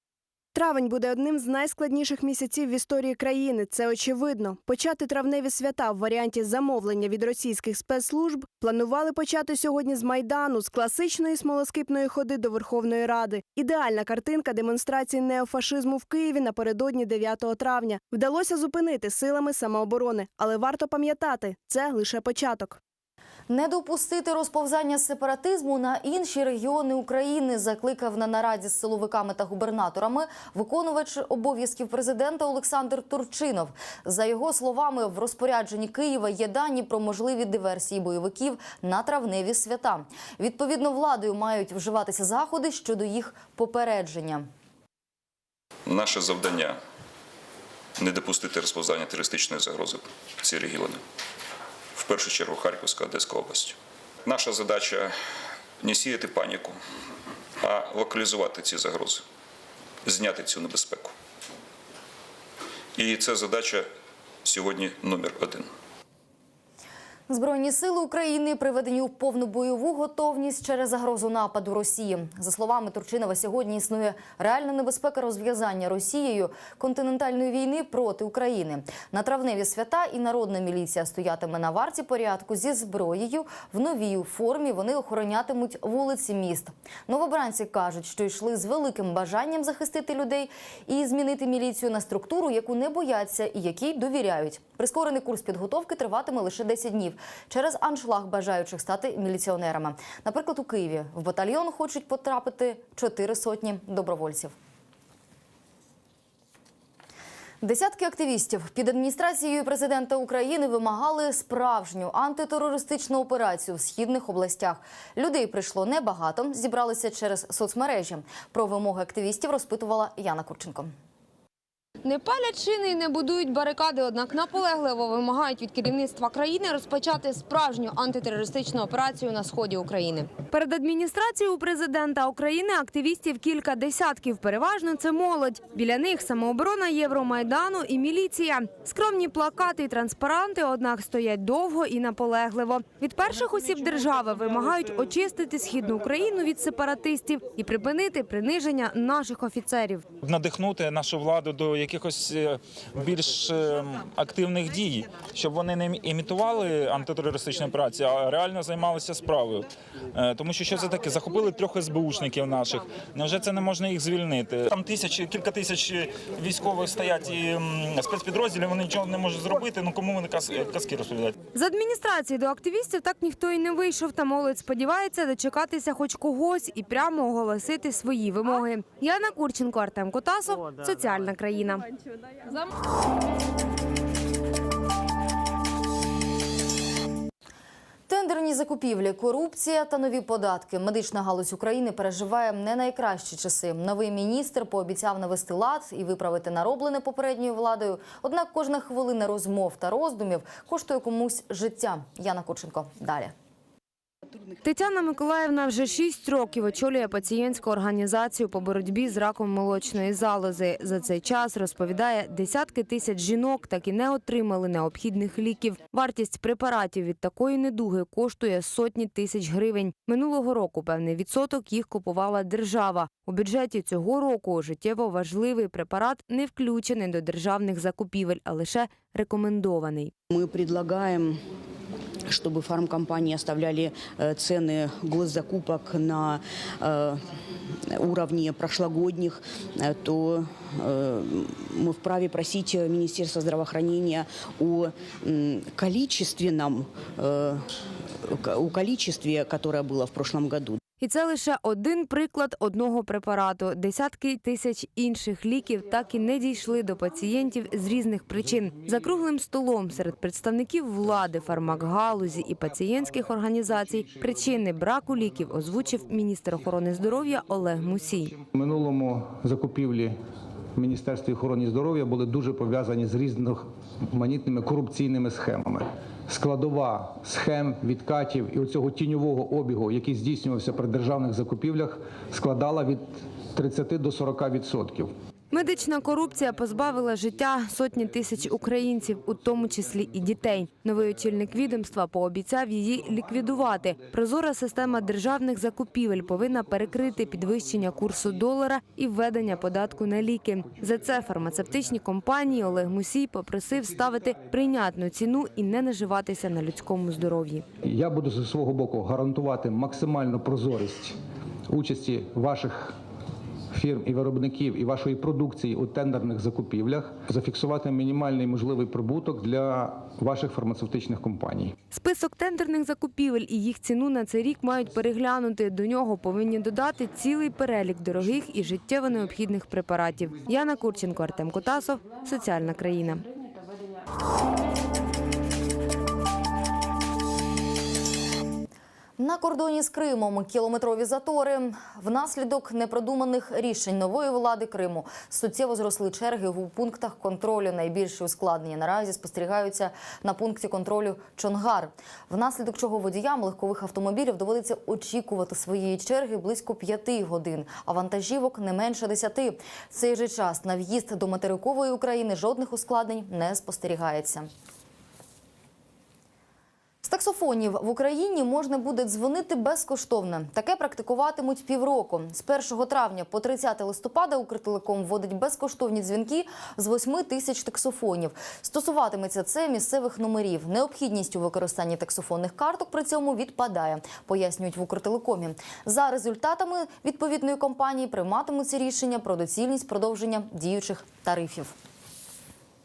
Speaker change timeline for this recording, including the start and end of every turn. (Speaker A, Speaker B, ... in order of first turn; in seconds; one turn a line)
Speaker A: 0.5-22.8
Speaker B: 23.5-44.5
Speaker C: 45.9-46.8
Speaker C: 48.0-51.0
Speaker C: 51.9-55.1
Speaker C: 55.8-56.8
Speaker C: 57.6-59.2
Speaker C: 60.0-61.1
Speaker C: 62.9-63.9
Speaker C: 64.4-65.7
Speaker B: 67.3-104.5
Speaker B: 107.6-120.9
Speaker D: 122.0-150.0
Speaker E: 150.2-171.3
Speaker D: 171.5-181.9
Speaker B: 188.1-203.3
Speaker D: 204.6-230.1
Speaker F: 230.3-231.4
Speaker F: 232.2-237.3
Speaker F: 237.8-250.8
Speaker D: 251.0-268.3
Speaker G: 268.4-270.1
Speaker G: 270.7-285.1
Speaker D: 285.5-307.6
Speaker G: 307.8-311.2
Speaker G: 311.7-313.0
Speaker G: 313.7-321.7
Speaker D: 321.9-333.2
Speaker B: 339.2-364.5
Speaker B: 367.0-391.7